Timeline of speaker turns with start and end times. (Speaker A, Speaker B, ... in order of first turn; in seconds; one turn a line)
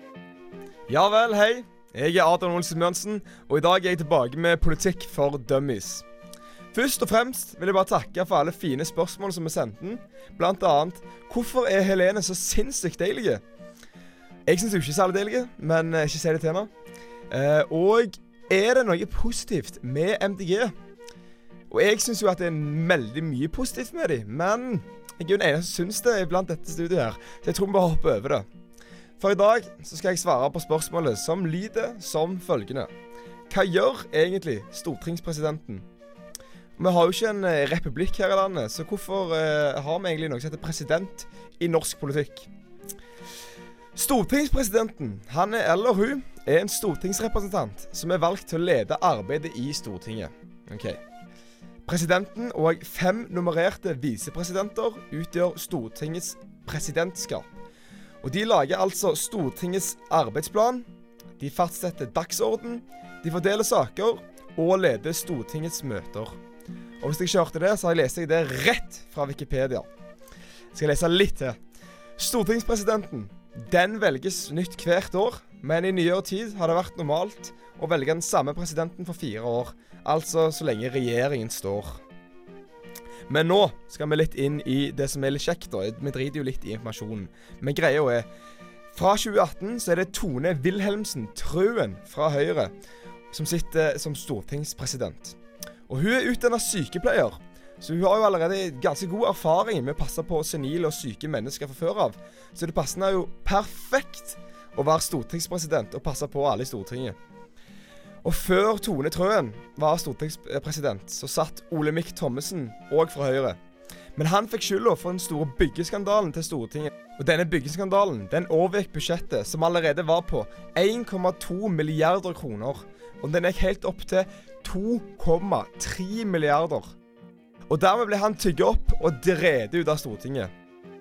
Speaker A: 0.9-6.0
Speaker A: 6.7-13.4
Speaker A: 14.5-16.7
Speaker A: 17.3-20.7
Speaker A: 21.7-28.4
Speaker A: 29.2-32.9
Speaker A: 33.5-35.8
Speaker A: 36.8-42.5
Speaker A: 44.0-51.0
Speaker A: 51.9-57.5
Speaker A: 58.2-60.9
Speaker A: 61.4-66.3
Speaker A: 67.0-69.9
Speaker A: 70.7-71.6
Speaker A: 72.2-82.0
Speaker A: 83.3-88.3
Speaker A: 88.9-92.7
Speaker A: 93.3-95.3
Speaker A: 95.9-107.2
Speaker A: 108.2-113.6
Speaker A: 114.2-126.9
Speaker A: 127.7-130.5